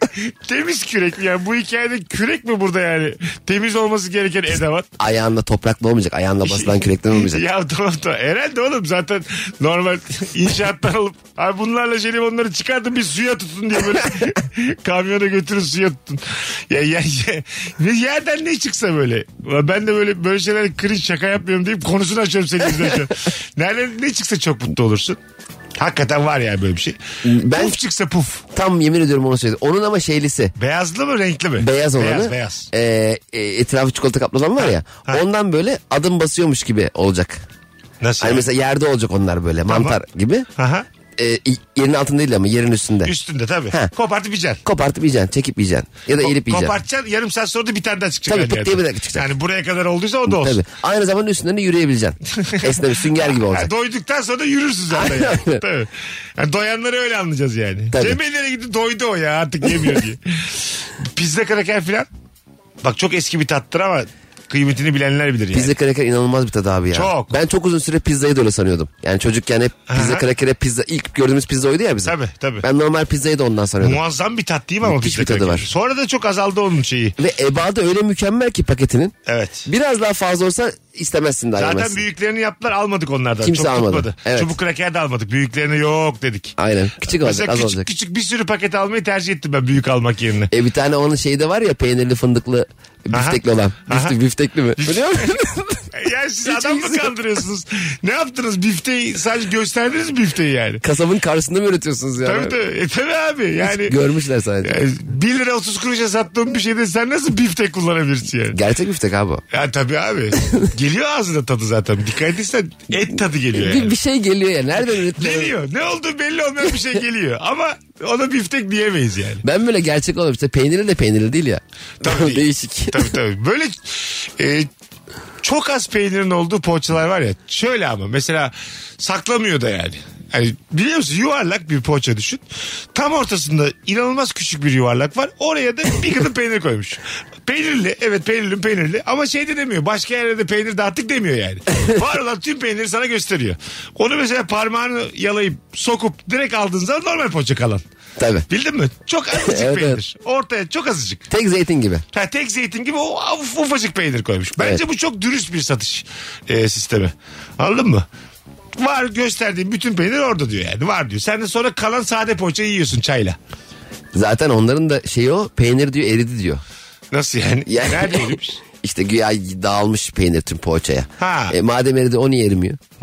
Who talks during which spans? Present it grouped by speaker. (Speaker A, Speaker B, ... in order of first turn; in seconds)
Speaker A: 0.2-4.9, 6.4-25.2, 25.8-27.0, 27.5-28.4, 30.6-32.7, 34.6-35.2, 38.0-38.5, 39.7-40.0, 40.5-40.9, 43.0-44.6, 46.2-50.6, 52.5-62.1, 62.8-65.7, 66.9-67.3, 69.9-70.2, 72.0-72.6, 73.8-77.2, 79.3-79.7, 81.6-86.5, 87.1-90.5, 93.1-94.1, 94.8-95.2, 95.9-100.8, 102.2-103.9, 104.6-108.6, 109.5-113.9, 115.2-119.4, 122.0-124.7, 125.4-147.8, 148.5-151.2, 152.1-158.1, 158.8-163.4, 167.1-168.6, 171.2-171.5
Speaker B: 5.0-7.4, 27.2-27.8, 28.5-30.5, 31.6-37.4, 38.2-40.5, 41.2-43.1, 44.6-46.8, 48.3-49.3, 50.2-53.7, 54.9-55.6, 57.9-58.2, 65.5-74.0, 74.8-75.7, 77.2-79.1, 79.7-82.0, 83.4-84.5, 86.6-87.9, 90.5-95.9, 96.4-97.1, 100.8-102.5, 103.6-104.8, 108.5-109.4, 113.5-115.5, 119.4-123.1, 148.2-148.5, 149.3-150.0, 151.3-152.0, 154.6-154.8, 164.1-166.6, 167.7-172.8